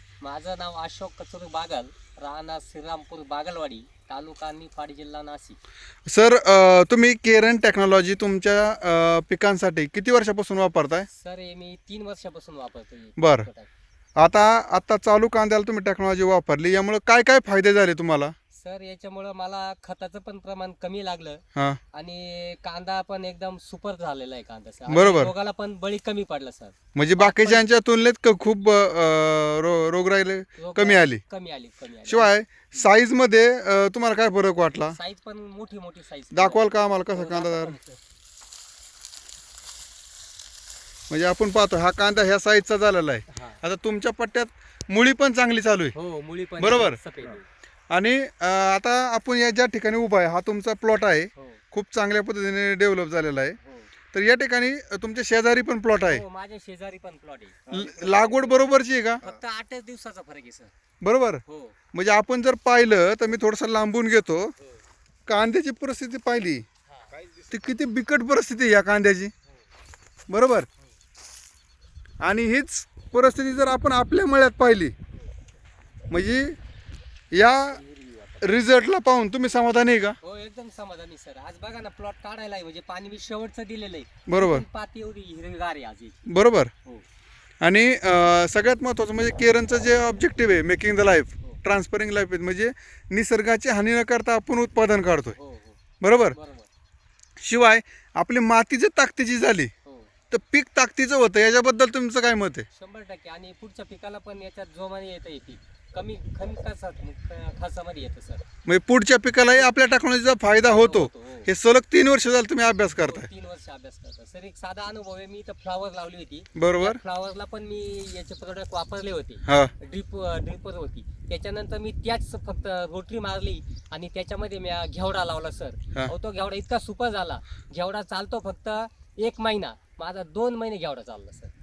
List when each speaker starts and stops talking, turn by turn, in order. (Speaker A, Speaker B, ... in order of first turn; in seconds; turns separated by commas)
Speaker A: 0.2-5.6, Speaker B: 6.1-11.1, Speaker A: 11.1-13.7, Speaker B: 13.2-13.5, Speaker B: 14.2-18.3, Speaker A: 18.5-27.6, Speaker B: 24.9-25.3, Speaker B: 26.9-31.2, Speaker A: 30.6-32.9, Speaker B: 32.1-35.0, Speaker A: 34.8-38.0, Speaker B: 36.3-37.8, Speaker B: 41.1-45.9, Speaker A: 43.3-43.6, Speaker A: 46.0-47.5, Speaker B: 46.6-47.0, Speaker B: 47.9-53.6, Speaker A: 51.4-51.6, Speaker A: 53.6-53.9, Speaker B: 54.1-56.2, Speaker A: 56.0-58.6, Speaker B: 57.7-59.4, Speaker A: 59.2-60.7, Speaker B: 61.0-61.4, Speaker A: 61.5-61.8, Speaker B: 61.9-64.5, Speaker B: 65.3-66.7, Speaker A: 66.9-67.2, Speaker B: 67.5-69.3, Speaker B: 70.3-70.7, Speaker B: 72.2-74.9, Speaker B: 76.1-76.6, Speaker B: 77.3-77.8, Speaker A: 77.7-78.5, Speaker B: 78.4-80.2, Speaker A: 80.2-86.2, Speaker B: 84.3-84.7, Speaker B: 86.3-86.7, Speaker B: 87.6-95.4, Speaker A: 95.3-95.8, Speaker B: 96.0-96.4, Speaker A: 96.3-96.7, Speaker B: 97.4-99.7, Speaker A: 99.8-100.1, Speaker B: 100.3-102.7, Speaker A: 102.7-108.5, Speaker B: 108.7-113.3, Speaker A: 110.7-111.5, Speaker A: 113.0-131.5, Speaker B: 116.6-117.0, Speaker B: 119.5-119.7